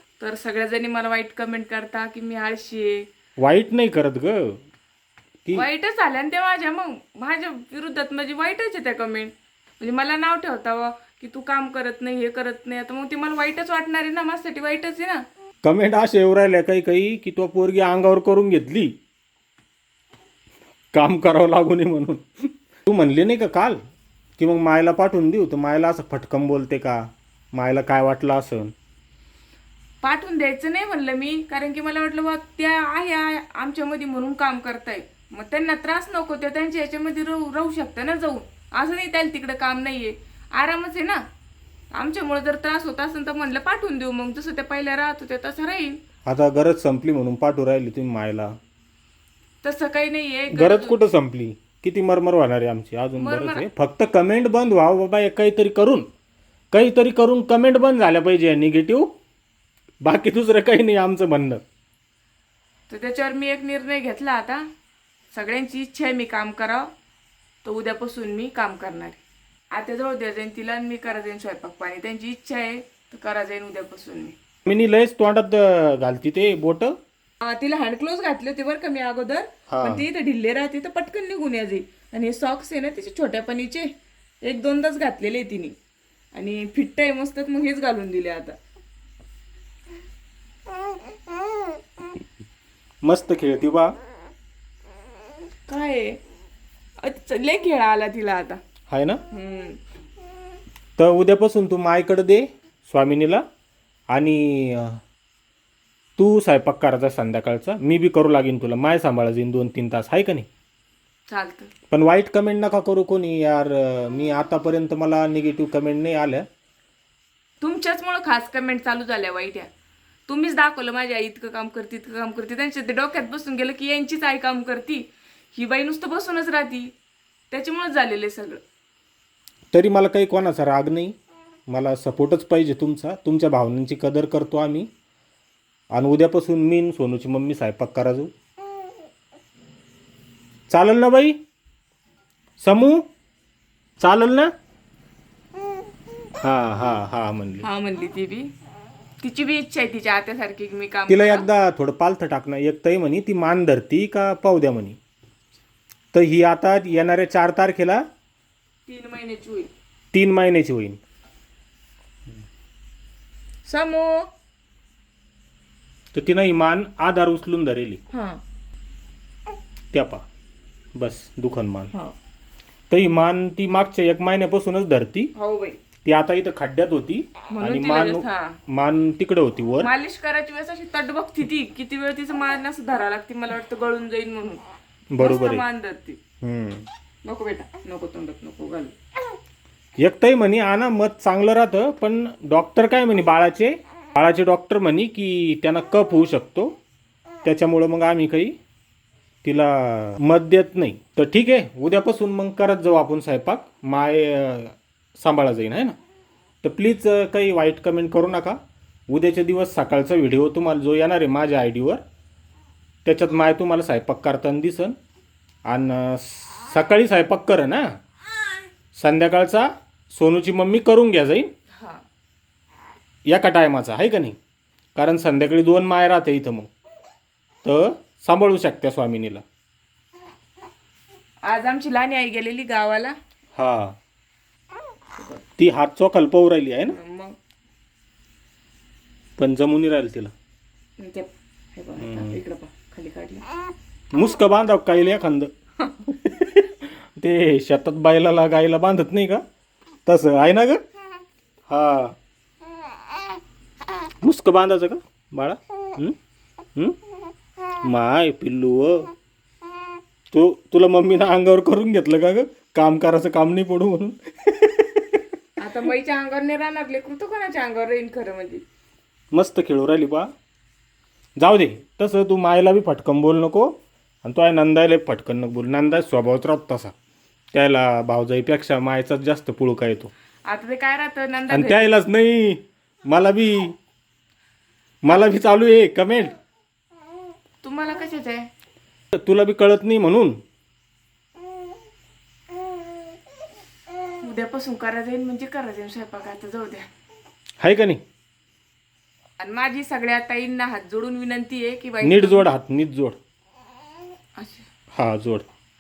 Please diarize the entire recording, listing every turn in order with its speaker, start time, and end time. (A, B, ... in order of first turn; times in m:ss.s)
0:00.2-0:03.1 A
0:03.4-0:04.6 B
0:05.5-0:15.2 A
0:15.6-0:19.0 B
0:20.9-0:23.8 B
0:24.4-0:28.7 B
0:30.0-0:41.2 A
0:42.0-0:46.0 A
0:46.3-0:48.5 B
0:49.6-0:51.0 A
0:50.5-0:56.1 B
0:53.2-0:53.7 A
0:56.7-0:59.1 B
1:00.0-1:01.6 B
1:02.9-1:04.6 A
1:05.3-1:06.9 A
1:07.6-1:09.2 A
1:09.7-1:14.4 A
1:14.7-1:17.0 B
1:17.4-1:25.8 A
1:19.7-1:20.0 B
1:26.3-1:28.6 A
1:33.0-1:34.0 B
1:35.7-1:36.2 A
1:37.0-1:38.6 A
1:38.9-1:39.2 B
1:39.3-1:39.8 A
1:41.0-1:43.4 B
1:44.1-1:45.0 B
1:46.2-1:50.5 B
1:51.3-1:51.7 A
1:51.9-1:56.5 B
1:57.6-1:59.7 A
2:00.3-2:06.9 A
2:07.5-2:08.6 A
2:09.7-2:11.2 B
2:11.7-2:14.9 B
2:15.9-2:18.3 B
2:20.7-2:21.4 B
2:22.6-2:23.0 B
2:24.0-2:24.5 B
2:26.4-2:27.7 B
2:27.6-2:28.5 A
2:29.2-2:31.5 A
2:31.1-2:35.0 B
2:36.1-2:38.0 B
2:38.9-2:39.7 A
2:40.1-2:41.0 B
2:43.7-2:44.3 A
2:46.1-2:48.0 B
2:48.1-2:48.4 A
2:49.9-2:50.2 B
2:51.0-2:51.9 B
2:52.9-2:55.3 B
2:55.4-2:55.8 A
2:56.0-2:59.9 B
2:57.5-2:58.6 A
2:59.8-3:04.6 A
3:05.1-3:05.6 B
3:05.2-3:06.2 A
3:06.4-3:06.9 B
3:07.2-3:08.9 A
3:10.0-3:16.7 B
3:17.4-3:18.6 B
3:19.4-3:26.0 B
3:26.6-3:28.6 B
3:29.1-3:32.0 B
3:33.0-3:35.0 B
3:35.7-3:37.9 B
3:39.0-3:41.5 B
3:41.8-3:42.0 A
3:43.3-3:44.4 B
3:45.0-3:46.7 B
3:47.6-3:49.4 B
3:51.4-3:53.2 A
3:53.6-3:54.0 B
3:55.6-3:57.0 B
3:56.9-3:57.4 A
3:59.4-4:00.3 B
4:01.0-4:03.5 A
4:02.0-4:02.4 B
4:04.1-4:05.5 B
4:06.1-4:09.4 B
4:10.1-4:10.8 B
4:11.7-4:12.2 B
4:14.2-4:16.2 B
4:17.8-4:19.1 B
4:20.3-4:25.2 B
4:25.6-4:28.6 A
4:29.3-4:30.3 B
4:31.4-4:33.7 B
4:34.2-4:36.9 B
4:37.5-4:40.1 B
4:40.5-4:41.8 A
4:41.5-4:43.8 B
4:45.0-4:46.4 B
4:47.6-4:48.5 A
4:49.1-4:50.4 B
4:54.2-4:56.9 A
4:57.6-4:58.0 B
4:59.4-5:02.5 A
5:02.0-5:03.2 B
5:04.4-5:04.7 A
5:04.9-5:05.4 B